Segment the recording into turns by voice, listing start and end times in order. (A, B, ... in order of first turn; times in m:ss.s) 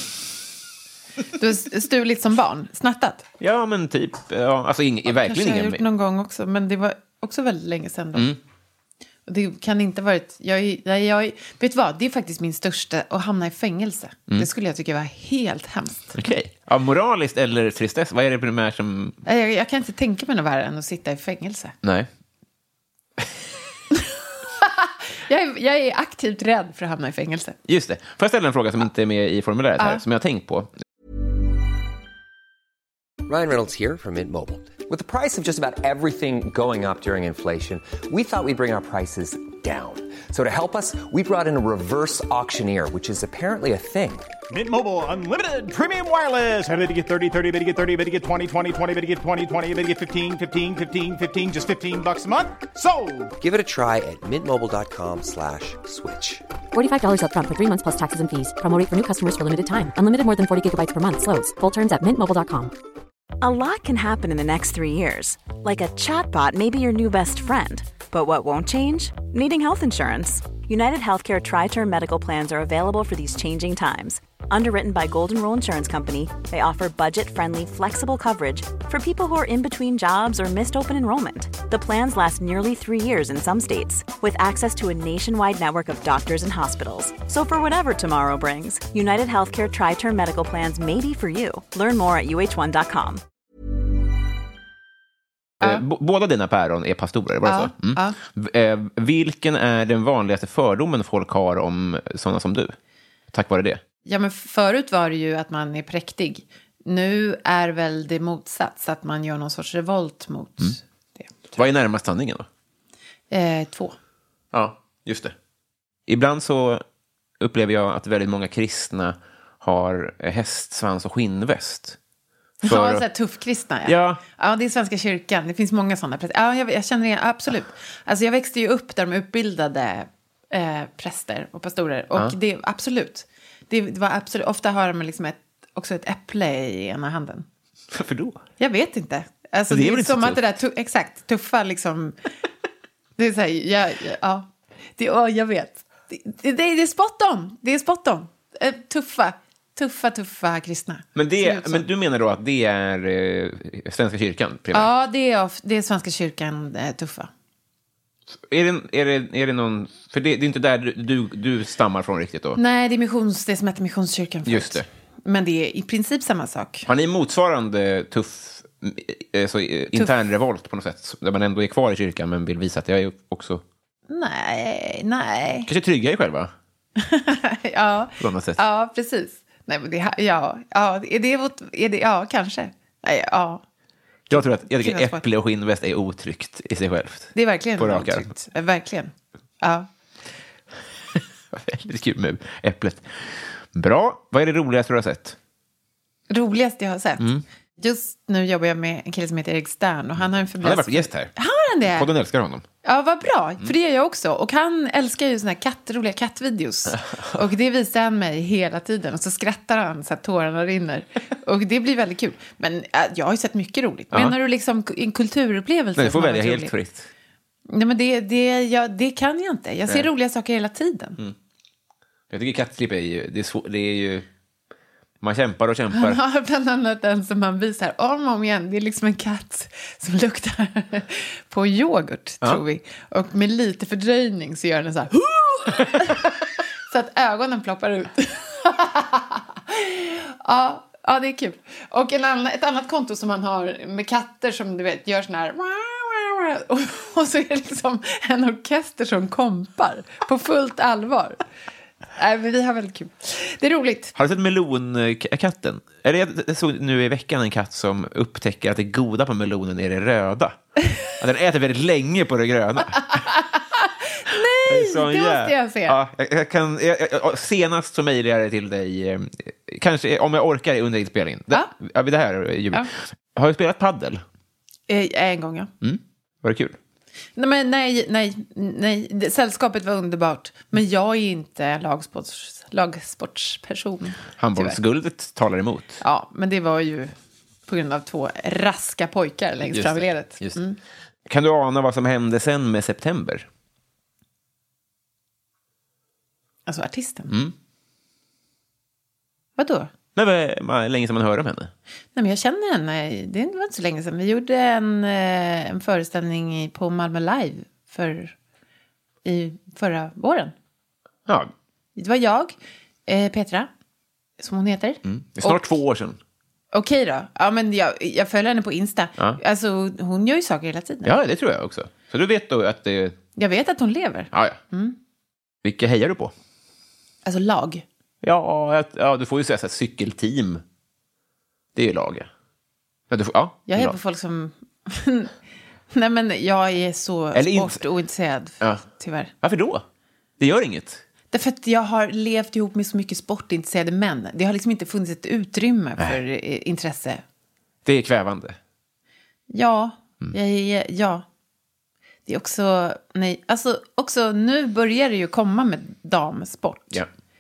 0:01.3-0:03.3 A
0:03.4-0:05.8 B
0:05.1-0:08.3 A
0:09.3-0:16.2 A
0:16.2-0:19.2 B
0:19.3-0:21.7 A
0:24.6-0:27.6 A
0:27.7-0:30.7 B
0:33.3-0:44.3 C
0:44.5-0:53.3 D
0:53.4-0:56.4 C
0:56.7-1:02.7 E
1:03.4-1:33.2 F
1:35.6-1:42.8 B
1:37.4-1:38.2 A
1:43.3-1:43.8 B
1:44.0-1:51.3 A
1:51.5-1:52.5 B
1:53.3-1:54.0 A
1:54.5-1:55.3 B
1:56.1-1:56.8 B
1:57.4-2:02.0 B
2:02.6-2:03.0 B
2:02.6-2:17.5 A
2:03.9-2:04.2 B
2:17.9-2:18.4 B
2:18.6-2:22.2 A
2:19.7-2:20.6 B
2:23.2-2:31.8 A
2:31.2-2:34.9 B
2:34.7-2:37.3 A
2:38.5-2:42.6 B
2:42.6-2:46.9 A
2:44.5-2:44.8 B
2:46.9-2:53.6 B
2:54.1-2:55.7 A
2:55.7-2:56.5 B
2:57.0-3:03.6 A
2:58.2-2:58.6 B
3:04.3-3:08.3 B
3:04.3-3:05.2 A
3:07.4-3:09.9 A
3:11.5-3:15.4 B
3:16.3-3:17.3 A
3:17.8-3:22.1 A
3:20.6-3:21.3 B
3:21.9-3:22.6 B
3:22.8-3:36.7 A
3:36.0-3:37.1 B
3:37.7-3:41.2 A
3:42.3-3:44.3 B
3:45.2-3:46.2 B
3:45.9-3:56.3 A
3:56.9-4:11.4 A
4:12.2-4:14.2 A
4:14.2-4:23.3 B
4:23.1-4:26.0 A
4:24.7-4:34.2 B
4:34.9-4:35.7 A
4:35.8-4:36.8 B
4:37.4-4:44.8 A
4:44.4-4:46.0 B
4:46.0-4:47.1 A
4:47.7-4:50.8 A
4:49.7-4:50.6 B
4:51.3-4:53.5 B
4:56.7-4:57.3 A
4:59.6-4:59.9 A
5:00.2-5:01.7 B
5:02.2-5:08.4 A
5:09.2-5:10.5 A
5:11.3-5:11.5 B
5:12.0-5:12.6 A
5:13.1-5:13.7 A
5:14.4-5:15.7 A
5:15.0-5:16.2 B
5:16.7-5:21.2 A
5:21.0-5:23.2 B
5:23.4-5:25.0 A
5:24.3-5:24.6 B
5:25.6-5:26.3 B
5:27.2-5:27.8 A
5:28.2-5:30.6 B
5:31.8-5:32.3 B
5:33.1-5:34.0 B
5:33.7-5:35.3 A
5:35.9-5:39.3 A
5:37.3-5:37.8 B
5:39.4-5:39.8 B
5:40.4-5:41.0 B
5:41.3-5:47.2 A
5:47.8-5:48.6 B
5:49.5-5:51.2 A
5:52.3-5:57.0 A